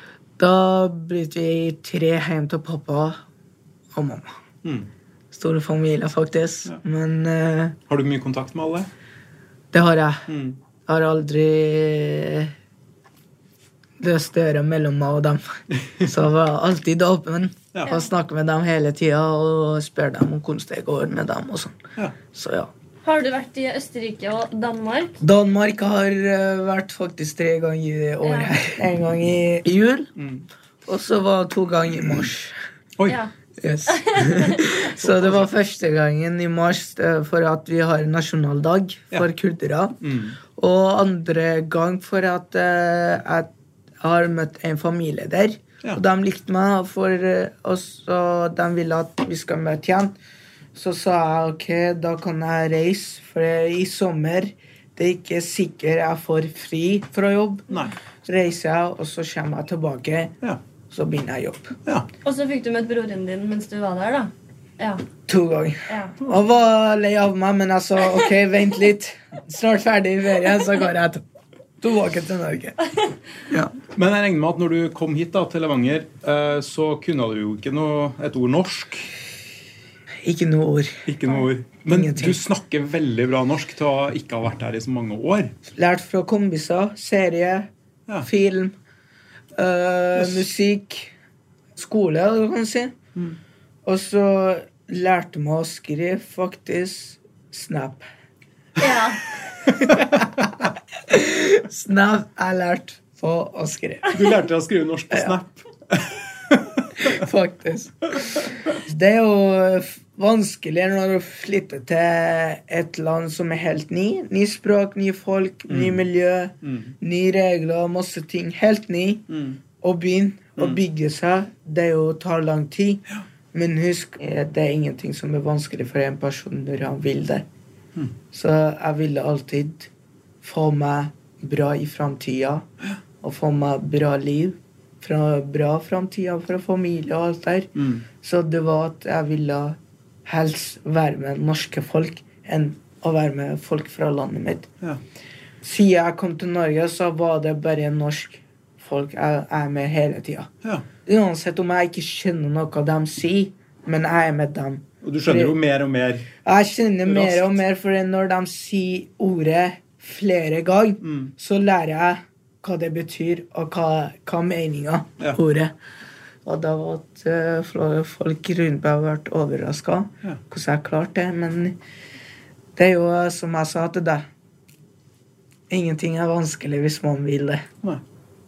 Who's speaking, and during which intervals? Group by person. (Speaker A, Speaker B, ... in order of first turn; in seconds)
Speaker A: 0.4-3.2, 3.9-4.3, 5.3-7.8, 9.7-10.3, 10.8-12.5, 14.0-22.7, 25.2-30.1, 30.9-32.6, 33.6-40.0, 40.5-50.1, 50.7-57.7, 58.2-60.3, 60.9-61.8, 65.3-71.2, 71.8-72.9, 73.5-73.7, 80.2-81.0, 81.9-82.4, 85.7-87.7, 88.2-88.7, 89.5-91.1, 91.8-92.9, 93.8-98.0, 99.7-104.2, 106.9-119.2, 119.8-127.4, 128.3-129.9, 130.4-132.7, 133.2-144.7, 145.6-150.5, 151.0-155.5, 156.4-165.7, 166.4-171.8, 172.8-174.2, 175.7-177.7
Speaker B: 4.6-4.9, 7.9-8.9, 10.3-10.6, 30.2-30.4, 35.0-35.5, 40.0-40.4, 73.9-79.1, 81.1-85.5, 90.2-90.4, 99.8-100.2, 104.1-107.2, 115.7-116.0, 116.6-116.9, 119.3-119.6, 137.8-138.0, 155.0-156.3, 157.1-157.6, 161.0-161.3
Speaker C: 23.0-25.2, 28.2-28.5, 33.9-34.6, 62.2-65.0, 65.9-66.2, 98.8-99.2